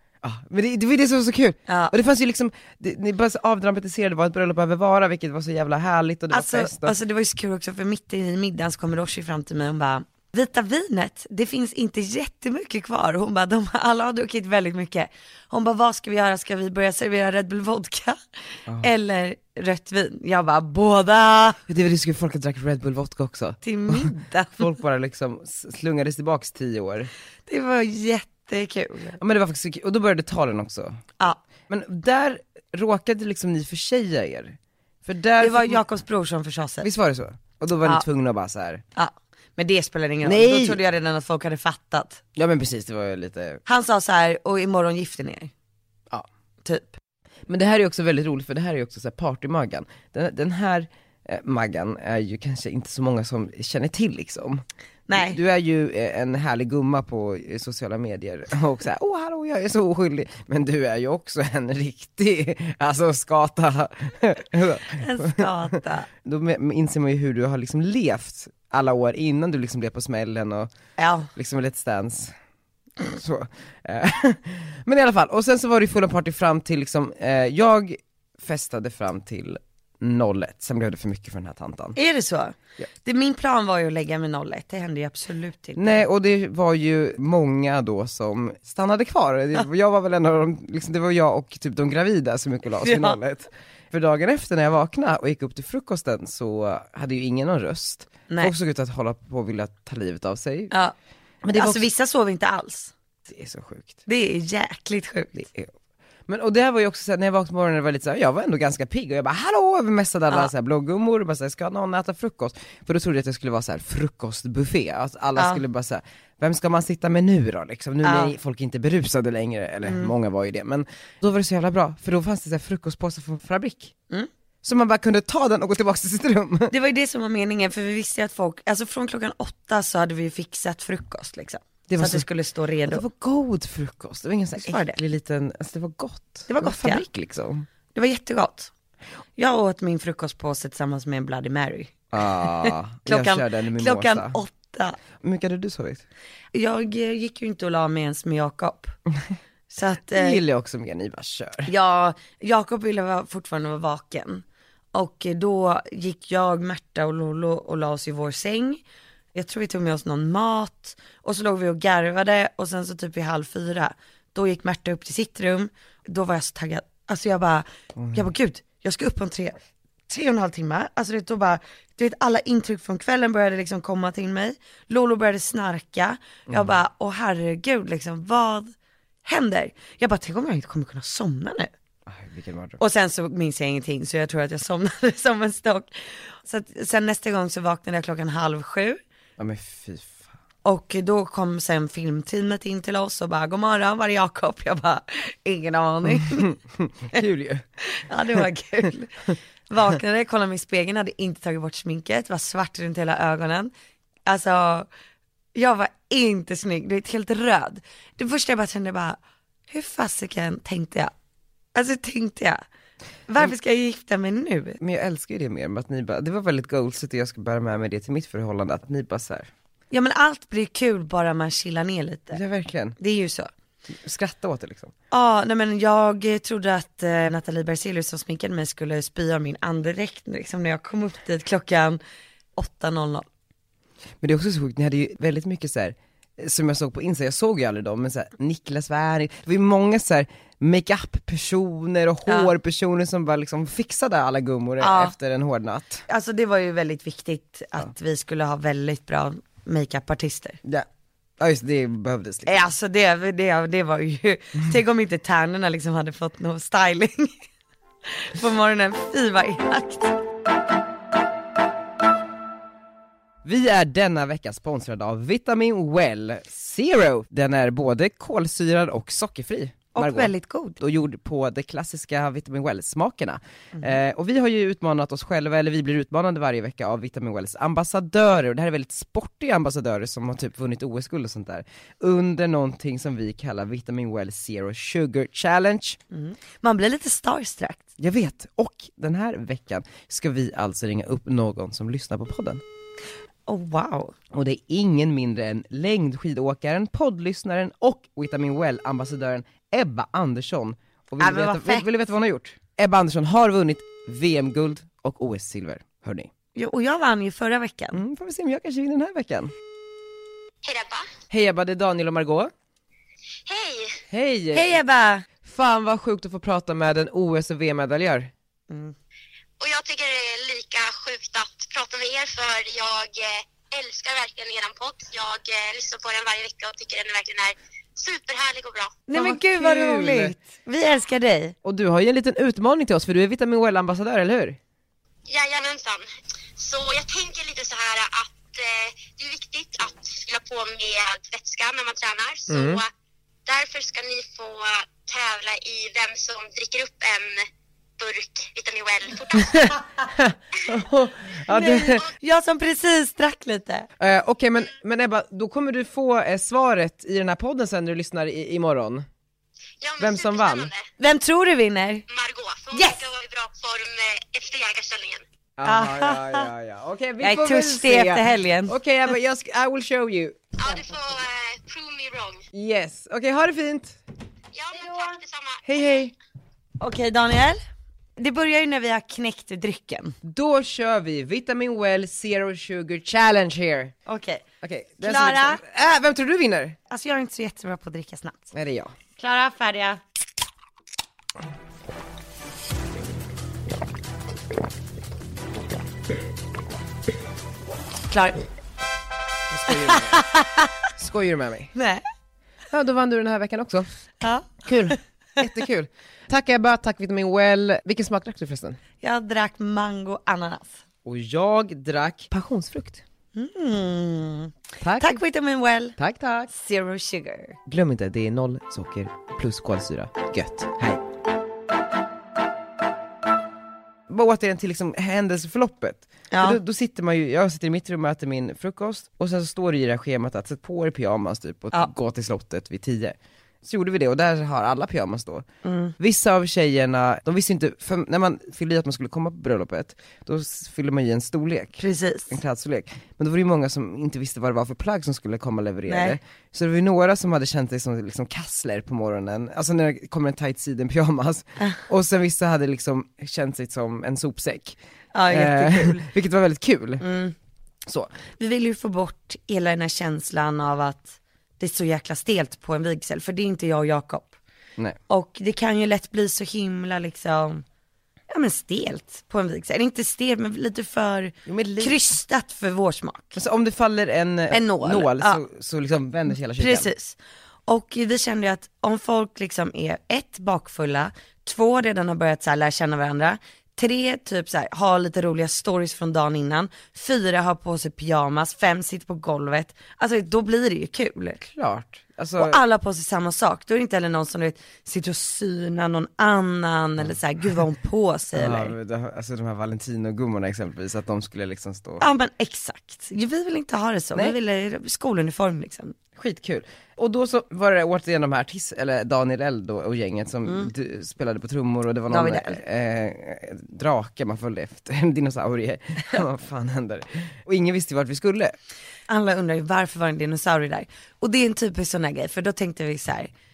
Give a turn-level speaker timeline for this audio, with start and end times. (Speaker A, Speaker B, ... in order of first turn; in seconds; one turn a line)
Speaker A: 0.2-6.9
Speaker B: 1.7-1.9
Speaker B: 6.3-18.2
Speaker B: 18.8-21.6
Speaker A: 21.7-27.1
Speaker B: 23.6-24.7
Speaker B: 27.5-29.2
Speaker A: 29.2-31.0
Speaker A: 31.7-35.8
Speaker B: 35.4-36.9
Speaker A: 36.8-38.8
Speaker B: 39.0-42.2
Speaker A: 40.2-40.8
Speaker A: 42.4-43.6
Speaker B: 43.6-45.5
Speaker B: 46.6-47.0
Speaker A: 47.5-65.5
Speaker B: 55.1-55.4
Speaker B: 65.0-66.1
Speaker A: 66.2-70.7
Speaker B: 71.0-71.3
Speaker A: 71.3-72.3
Speaker A: 73.0-82.0
Speaker B: 82.0-86.0
Speaker A: 85.8-100.7
Speaker B: 92.8-93.2
Speaker B: 98.3-98.5
Speaker A: 101.4-101.9
Speaker B: 101.5-102.9
Speaker A: 103.3-104.0
Speaker B: 104.1-105.5
Speaker A: 105.4-105.7
Speaker A: 106.3-123.9
Speaker B: 115.3-115.6
Speaker B: 118.0-118.3
Speaker B: 119.8-120.1
Speaker A: 124.6-126.7
Speaker B: 126.7-133.0
Speaker A: 131.9-132.2
Speaker A: 132.9-137.7
Speaker B: 134.6-135.0
Speaker B: 136.5-137.0
Speaker B: 137.9-138.7
Speaker B: 139.4-145.0
Speaker A: 142.1-144.4
Speaker A: 145.2-146.0
Speaker B: 146.5-148.9
Speaker B: 149.7-150.4
Speaker A: 150.1-151.7
Speaker B: 151.7-158.8
Speaker B: 159.3-169.6
Speaker A: 168.0-168.2
Speaker B: 170.1-178.7
Speaker A: 176.5-176.8
Speaker B: 179.2-181.7
Speaker A: 182.1-182.8
Speaker B: 182.8-189.0
Speaker A: 189.4-190.3
Speaker B: 190.6-196.5
Speaker A: 196.2-197.6
Speaker B: 197.8-203.7
Speaker B: 204.2-204.9
Speaker B: 205.5-211.1
Speaker B: 211.7-212.6
Speaker B: 213.3-214.8
Speaker A: 214.8-219.5
Speaker B: 219.9-222.4
Speaker A: 222.3-223.0
Speaker B: 223.0-223.5
Speaker A: 224.0-224.9
Speaker B: 225.1-232.0
Speaker B: 232.6-233.2
Speaker A: 234.2-246.0
Speaker B: 242.3-242.5
Speaker B: 244.8-245.1
Speaker B: 246.1-250.6
Speaker A: 251.4-252.6
Speaker B: 252.4-257.3
Speaker B: 258.1-260.2
Speaker A: 263.4-286.0
Speaker B: 269.9-270.8
Speaker B: 286.1-287.8
Speaker A: 288.0-292.6
Speaker B: 293.5-294.1
Speaker A: 294.3-306.3
Speaker B: 301.2-301.9
Speaker B: 306.6-308.0
Speaker A: 307.9-309.5
Speaker C: 310.6-311.1
Speaker A: 311.3-312.5
Speaker C: 313.5-314.0
Speaker A: 314.1-314.8
Speaker B: 314.5-315.2
Speaker A: 315.4-318.3
Speaker B: 318.7-318.9
Speaker C: 319.6-329.0
Speaker B: 329.1-331.5
Speaker A: 329.1-330.3
Speaker A: 331.6-334.6
Speaker C: 335.3-336.1
Speaker C: 336.6-342.9
Speaker C: 343.4-347.5
Speaker C: 348.0-349.8
Speaker A: 349.5-352.0
Speaker B: 351.5-353.9
Speaker A: 354.0-359.1
Speaker C: 359.8-360.9
Speaker A: 360.0-360.7
Speaker B: 361.0-362.0
Speaker C: 362.1-365.2
Speaker B: 362.7-363.0
Speaker A: 365.6-370.4
Speaker B: 365.6-366.5
Speaker B: 367.2-368.7
Speaker C: 370.6-372.4
Speaker A: 372.5-374.0
Speaker C: 374.5-376.1
Speaker B: 374.8-375.1
Speaker A: 375.6-376.1
Speaker B: 376.8-377.6
Speaker B: 378.2-380.1
Speaker A: 380.2-383.9
Speaker B: 384.1-384.4
Speaker A: 384.6-386.8
Speaker B: 385.0-385.6
Speaker B: 386.9-388.5
Speaker A: 388.5-388.9
Speaker B: 389.2-390.0
Speaker B: 398.1-398.4
Speaker A: 399.5-400.2
Speaker B: 399.7-400.7
Speaker A: 401.0-401.7
Speaker B: 401.7-402.0
Speaker A: 402.7-403.9
Speaker B: 404.2-405.0
Speaker A: 404.7-408.8
Speaker B: 409.0-410.8
Speaker A: 411.0-413.0
Speaker B: 413.3-415.9
Speaker A: 414.8-415.1
Speaker A: 416.0-416.5
Speaker B: 416.5-417.6
Speaker A: 417.6-421.0
Speaker A: 424.1-435.4
Speaker B: 426.3-426.6
Speaker B: 435.6-435.9
Speaker A: 436.0-454.8
Speaker B: 441.8-442.4
Speaker B: 445.9-446.2
Speaker B: 455.1-456.1
Speaker A: 455.3-457.0
Speaker B: 457.0-457.3
Speaker A: 457.9-458.1
Speaker B: 458.4-464.3
Speaker B: 465.1-467.6
Speaker B: 468.3-473.4
Speaker A: 471.4-471.9
Speaker A: 473.3-476.9
Speaker B: 474.5-475.4
Speaker B: 476.6-491.4
Speaker A: 491.4-492.6
Speaker B: 492.4-498.7
Speaker A: 498.3-502.1
Speaker B: 502.0-505.9
Speaker A: 506.2-518.5
Speaker B: 512.1-512.6
Speaker B: 519.1-523.3